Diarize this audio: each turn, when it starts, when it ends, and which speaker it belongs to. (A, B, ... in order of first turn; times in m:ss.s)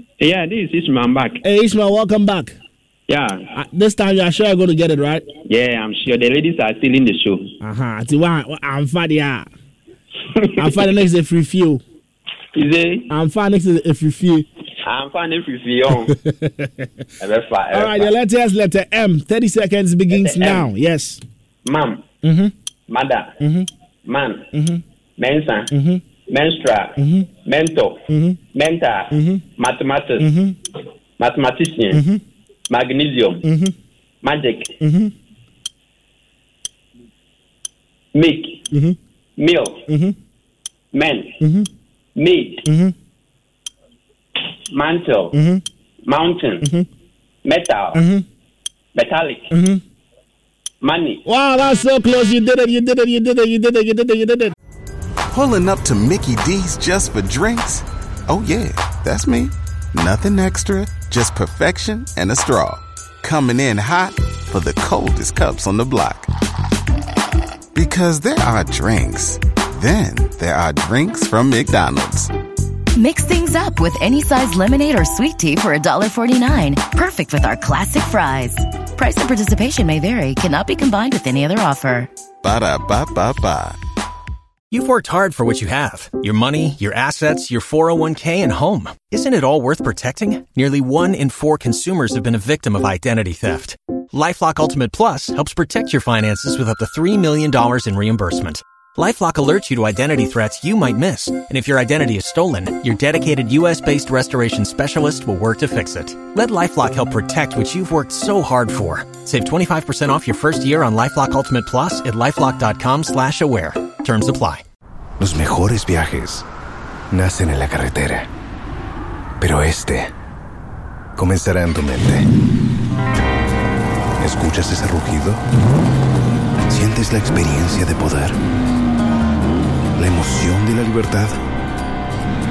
0:00.2-0:01.4 A
0:01.4-0:02.6 B
0:03.1-0:03.5 A
0:03.5-0:05.3 B
0:05.5-0:07.5 A
0:07.6-0:09.5 B
0:10.4-0:10.7 A
0:10.6-0:11.8 B
0:12.5-0:13.1 A
0:13.1-0:14.5 B
0:14.8-0:16.2 A
0:16.0-0:17.0 B
0:17.2-0:18.1 A
0:17.7-0:21.2 B
0:20.1-0:20.7 A
0:21.6-0:22.1 A
0:22.2-0:22.5 B
0:22.9-0:23.4 A
0:23.4-0:23.7 B
0:24.1-0:24.5 A
0:24.5-0:24.8 B
0:25.2-0:25.7 A
0:25.7-0:26.0 B
0:26.3-0:28.0 A
0:27.0-0:27.3 B
0:28.1-0:28.4 B
0:28.5-0:30.2 A
0:29.1-0:29.4 B
0:30.2-0:30.6 B
0:31.2-0:32.0 A
0:31.9-0:32.2 B
0:32.7-0:33.4 A
0:33.4-0:33.7 B
0:34.2-0:34.7 A
0:34.8-0:35.1 B
0:38.1-0:38.6 A
0:38.7-0:39.0 B
0:39.4-0:39.8 A
0:39.9-0:40.2 B
0:40.9-0:41.4 A
0:41.4-0:41.7 B
0:42.2-0:42.6 A
0:42.6-0:42.9 B
0:44.7-0:45.4 A
0:45.3-0:45.6 B
0:46.1-0:46.6 A
0:46.6-0:46.9 B
0:47.4-0:48.0 A
0:47.9-0:48.2 B
0:49.0-0:49.5 A
0:49.5-0:49.8 B
0:50.8-0:51.2 A
0:51.2-0:54.5 B
0:55.3-1:06.3 C
1:07.8-1:12.3 C
1:13.0-1:22.1 D
1:22.4-1:23.8 C
1:24.7-1:54.6 E
1:55.2-1:56.4 F
1:57.1-1:58.3 F
1:59.4-2:00.1 F
2:01.2-2:02.2 F
2:04.2-2:05.4 F
2:06.7-2:08.4 F
2:10.0-2:11.4 F